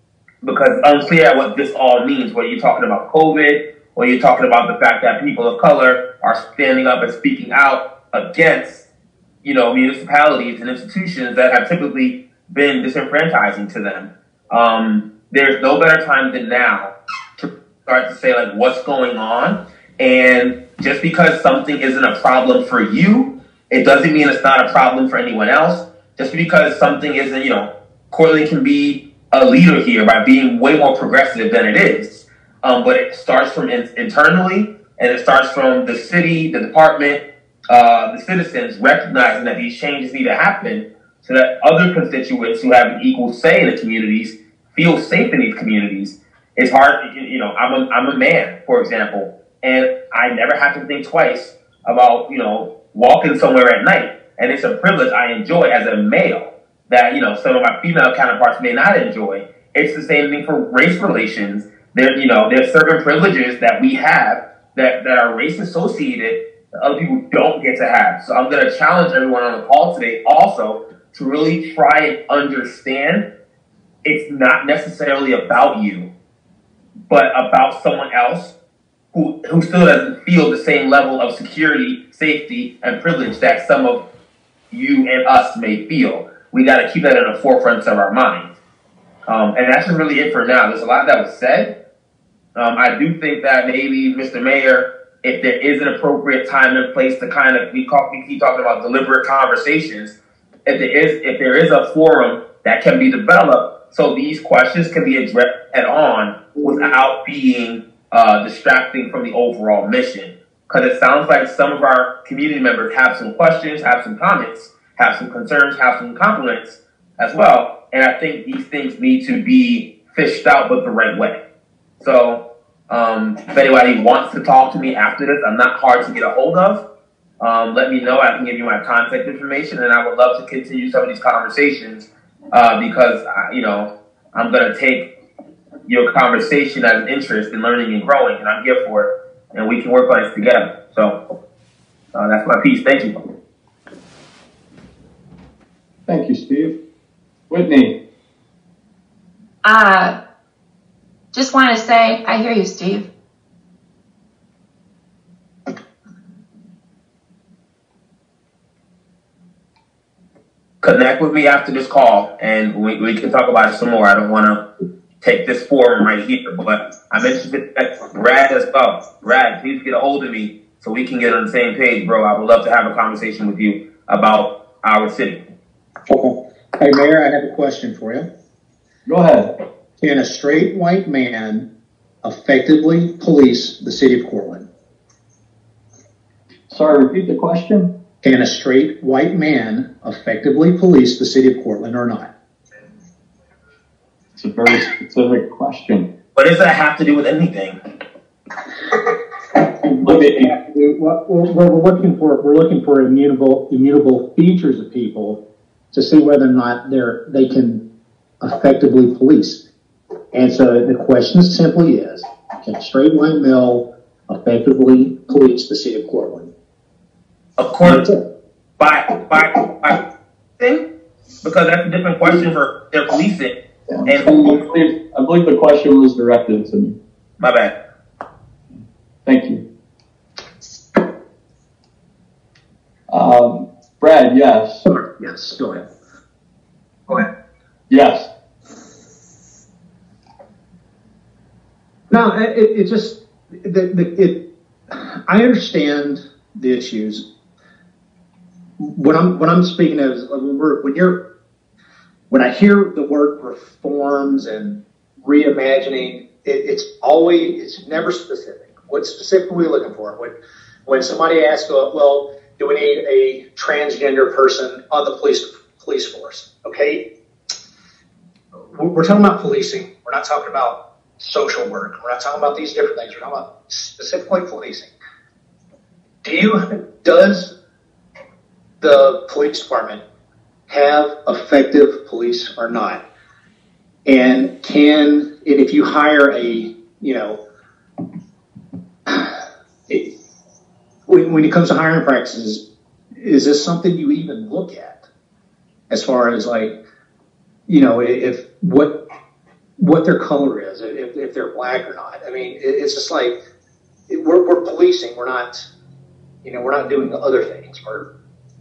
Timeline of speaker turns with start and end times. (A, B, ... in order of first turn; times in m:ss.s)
0:00.4-0:08.8 A
0:09.4-1:13.2 A
1:14.0-1:16.1 A
1:17.1-1:18.5 A
1:19.1-1:24.0 A
1:24.7-1:28.5 A
1:29.3-1:31.7 A
1:32.5-2:01.4 A
2:02.0-2:06.8 A
2:07.4-2:15.1 A
2:15.8-2:21.2 A
2:22.1-2:23.2 A
2:26.1-2:26.8 B
2:27.5-2:28.0 B
2:29.6-2:30.2 C
2:31.3-2:33.1 C
2:40.8-2:44.6 A
2:45.2-2:55.4 A
2:56.1-2:58.3 D
2:59.0-2:59.5 B
3:00.0-3:01.7 D
3:02.2-3:04.7 D
3:06.7-3:07.9 B
3:08.2-3:12.3 D
3:14.4-3:16.1 B
3:16.3-3:17.8 A
3:19.8-3:25.4 D
3:20.0-3:20.5 B
3:25.9-3:27.8 D
3:28.4-3:29.6 D
3:30.3-3:36.5 D
3:37.6-3:38.1 A
3:37.8-3:38.2 D
3:38.8-3:40.0 A
3:40.6-3:40.8 A
3:41.4-3:43.5 A
3:43.9-3:47.0 B
3:44.0-3:44.4 A
3:47.4-3:47.7 A
3:49.2-3:49.6 B
3:53.1-3:54.8 B
3:54.8-3:55.9 D
3:57.9-3:58.3 B
4:02.1-4:04.4 D
4:04.9-4:07.2 D
4:08.8-4:11.2 D
4:12.3-4:20.3 D
4:20.8-4:27.1 D
4:28.7-4:34.9 D
4:36.2-4:37.5 D
4:38.8-4:40.0 D
4:40.7-4:43.0 D
4:44.0-4:47.4 D
4:49.1-4:49.3 D
4:51.1-4:52.6 D
4:53.2-4:55.0 D
4:55.9-4:56.7 D
4:57.7-4:59.0 D
4:59.8-5:03.4 D
5:04.1-5:05.7 D
5:06.4-5:08.1 D